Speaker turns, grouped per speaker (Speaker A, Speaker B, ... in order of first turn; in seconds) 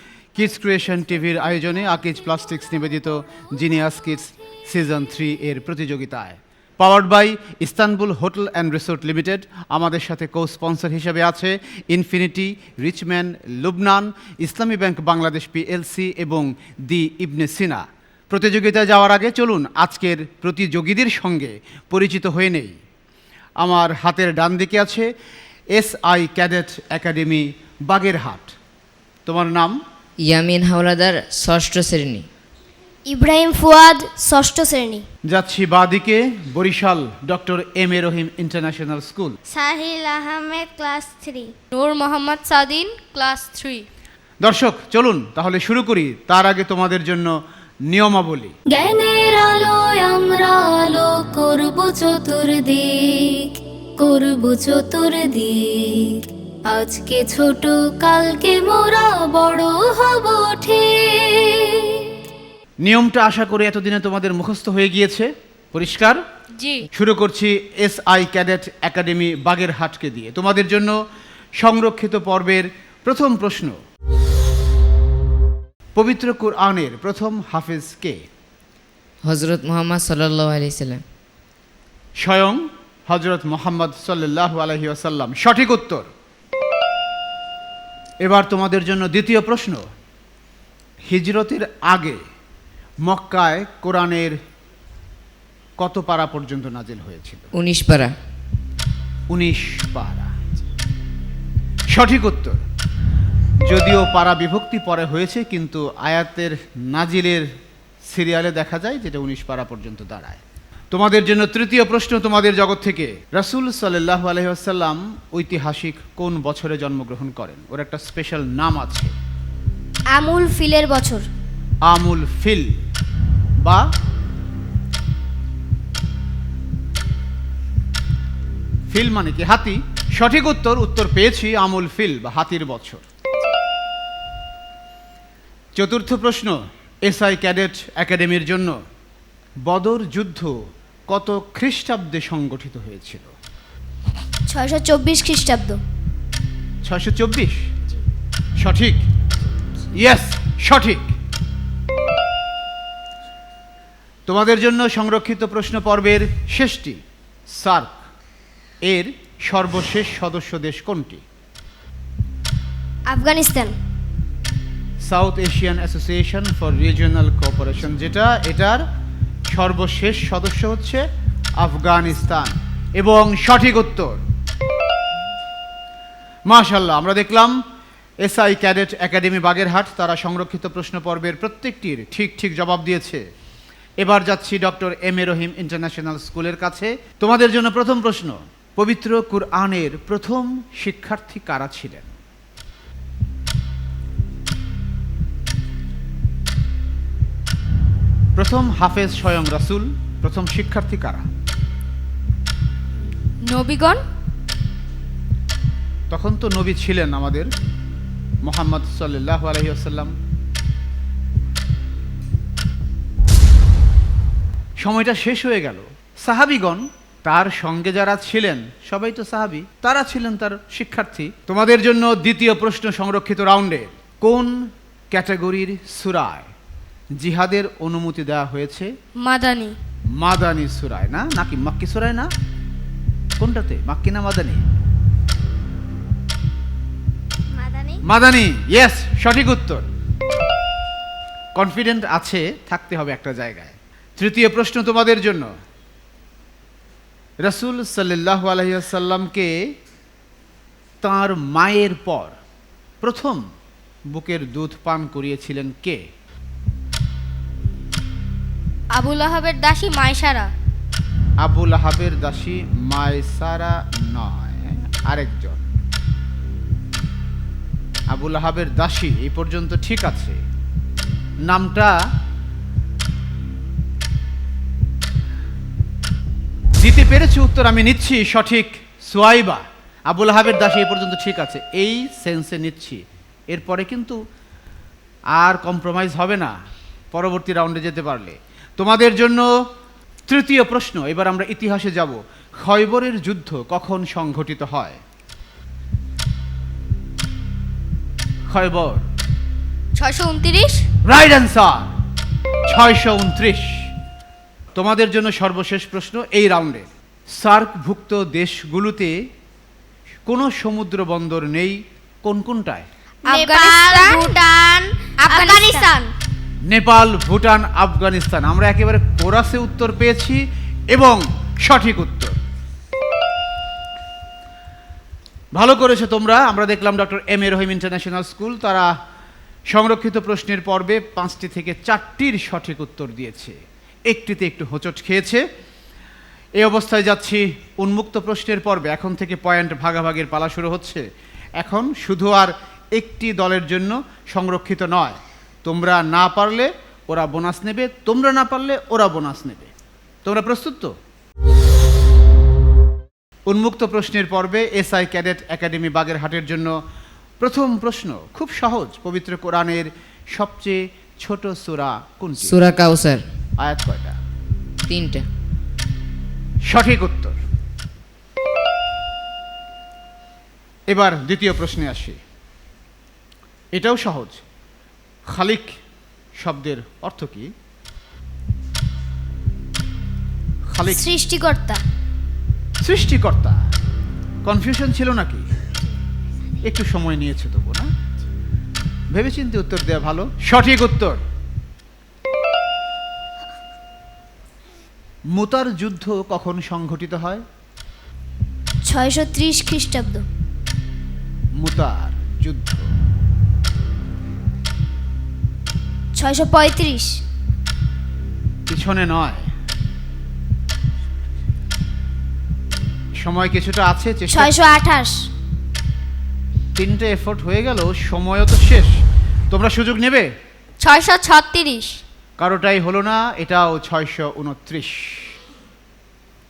Speaker A: 0.3-22.8, 23.6-25.1, 25.7-28.5, 29.2-29.8, 35.3-39.4, 44.4-47.3, 47.9-48.5, 62.8-66.2, 66.9-71.0, 71.6-73.8, 76.0-78.2, 82.2-86.1, 88.2-89.8, 91.1-92.2, 93.0-94.3, 95.8-97.5, 99.3-100.3, 101.9-102.6, 103.7-107.5, 108.1-110.4, 110.9-119.1, 121.9-122.8, 128.9-133.0, 135.8-138.8, 139.7-140.6, 141.1-143.3, 146.8-147.6, 148.6-149.0, 149.9-151.1, 154.3-158.0, 158.8-161.2, 165.0-168.8, 169.5-171.0, 171.6-174.2, 176.5-177.6, 178.2-183.2, 184.0-192.1, 198.4-201.3, 206.1-207.5, 208.4-210.1, 214.8-226.5, 227.2-228.9, 230.2-232.3, 233.4-234.6, 238.0-239.9, 241.5-245.5, 247.4-249.5, 251.0-252.3, 253.0-253.4, 254.1-256.0, 261.4-265.7, 268.1-270.4, 271.4-271.9, 276.8-284.2, 285.4-286.5, 287.1-289.5, 290.3-295.0, 298.5-299.0, 301.1-301.9, 302.7-303.9, 304.8-309.2, 310.2-312.9, 316.7-320.4, 320.9-322.4, 325.5-328.9, 329.7-333.6, 334.1-335.4, 336.6-341.0, 341.6-349.7, 350.2-350.9, 353.5-356.7, 357.4-362.6, 363.6-364.2, 366.7-367.4, 370.9-372.2, 373.7-374.4, 375.3-375.8, 376.4-377.5, 380.7-381.1, 382.8-383.6, 384.4-385.4, 386.6-387.9, 389.1-391.2, 395.3-397.4, 401.6-402.9, 408.7-409.5, 413.2-414.6, 416.8-418.9, 419.5-420.3, 422.4-425.4
Speaker B: 30.2-32.3, 79.2-81.0, 97.5-98.1, 362.4-363.3, 364.9-365.3
Speaker C: 33.1-35.0, 39.5-41.5, 120.1-121.3, 144.5-145.8, 163.1-163.8, 237.5-238.0, 313.2-314.4, 315.2-316.1, 380.9-381.8, 398.9-400.2, 406.1-407.2, 414.3-415.3
Speaker D: 41.7-43.9, 66.6-66.8, 203.5-204.0, 229.2-229.8, 258.9-260.5, 299.9-300.8, 313.2-315.9, 420.8-422.0
Speaker E: 48.7-62.2